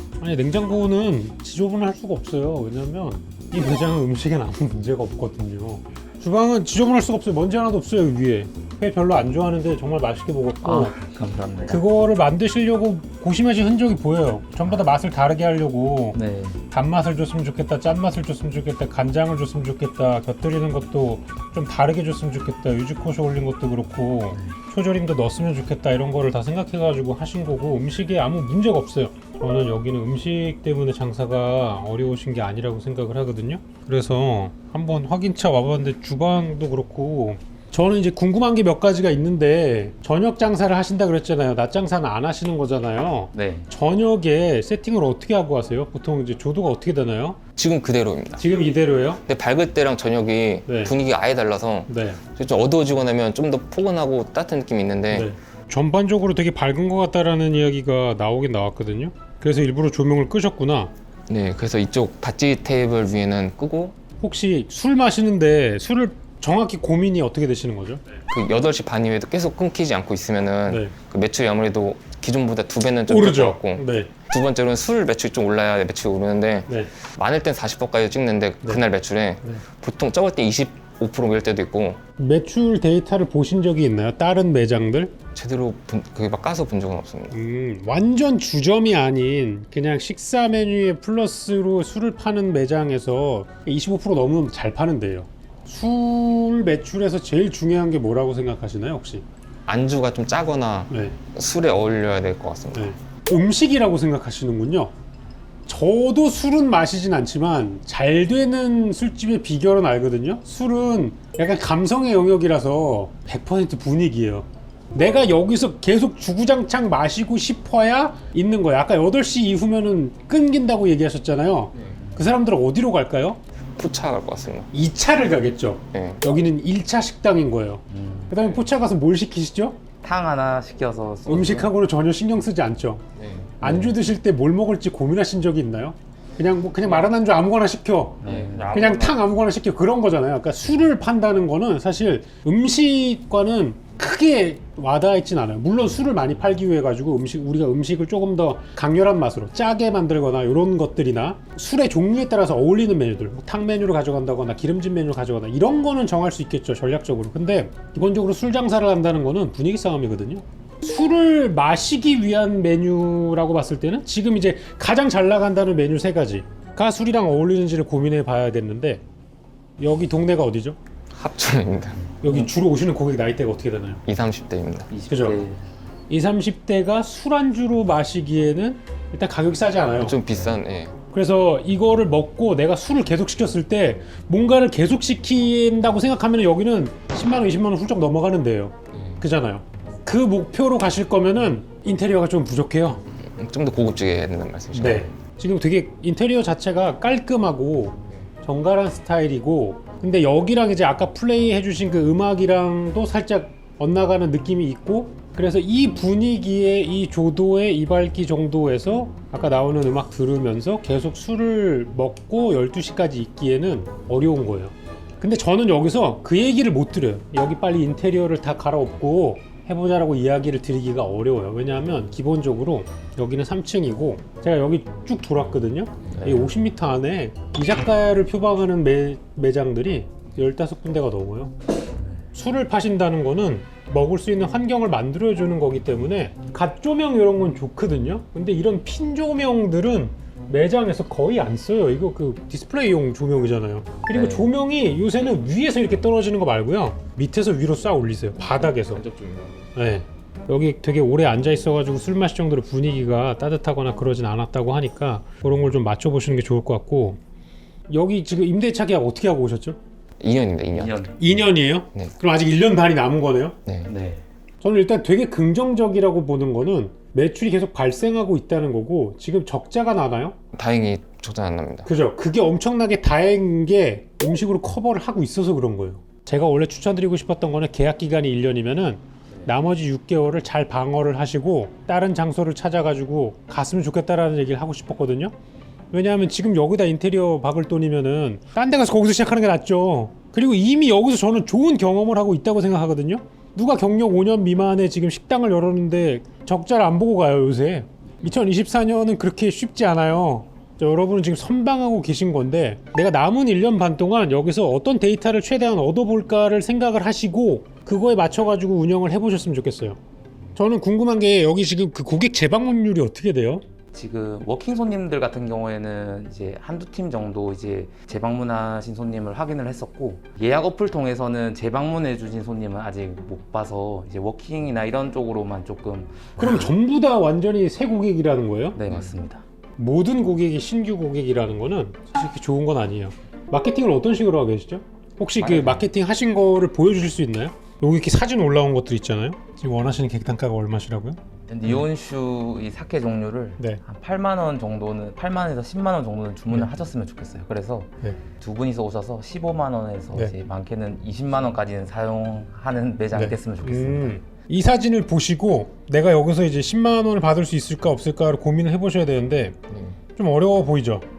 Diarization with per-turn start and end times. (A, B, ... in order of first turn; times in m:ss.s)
0:00.2-0:10.9 A
0:10.6-0:11.8 B
0:11.7-0:16.2 A
0:16.1-0:16.6 B
0:16.7-0:47.4 A
0:43.3-0:43.7 B
0:47.6-0:48.4 C
0:48.4-0:49.2 A
0:49.3-0:55.3 C
0:50.7-0:50.9 A
0:51.9-0:52.2 A
0:55.1-1:00.9 A
1:01.3-1:04.0 C
1:04.2-1:08.0 A
1:08.3-1:22.0 C
1:10.7-1:10.9 A
1:13.1-1:14.1 A
1:22.2-1:25.1 A
1:25.3-1:27.3 C
1:27.3-1:39.2 A
1:39.7-1:42.9 C
1:40.9-1:41.2 A
1:42.7-1:44.9 A
1:45.7-2:03.4 A
2:03.8-2:04.7 C
2:04.7-2:09.8 A
2:05.9-2:06.2 C
2:07.9-2:08.6 B
2:10.0-2:11.7 B
2:11.3-2:13.0 A
2:13.2-2:13.6 C
2:13.6-2:49.0 A
2:13.6-2:14.0 B
2:18.2-2:19.2 B
2:18.2-2:19.2 C
2:49.8-2:50.8 A
2:51.1-2:52.0 C
2:52.0-2:52.5 B
2:52.2-2:54.0 A
2:54.1-2:54.9 C
2:54.9-2:55.6 B
2:55.1-2:55.4 A
2:56.1-3:00.2 A
3:00.0-3:01.0 C
3:01.1-3:13.0 A
3:08.9-3:09.2 C
3:13.2-3:15.1 C
3:14.7-3:51.5 A
3:46.1-3:46.6 B
3:52.3-4:09.0 A
4:04.1-4:04.5 B
4:08.4-4:09.7 C
4:09.8-4:17.2 A
4:17.9-4:19.8 A
4:20.2-4:21.1 C
4:20.8-4:21.2 B
4:21.2-4:23.6 A
4:23.8-4:24.2 B
4:24.6-4:30.4 A
4:30.5-4:31.9 C
4:31.8-4:45.3 A
4:45.9-5:10.0 A
5:10.6-5:13.6 A
5:13.9-5:26.7 B
5:26.4-5:28.8 A
5:28.7-5:29.4 B
5:29.8-5:41.8 A
5:35.4-5:35.9 B
5:41.5-5:54.2 B
5:53.1-5:59.6 A
5:59.7-6:00.0 C
6:00.2-6:01.0 A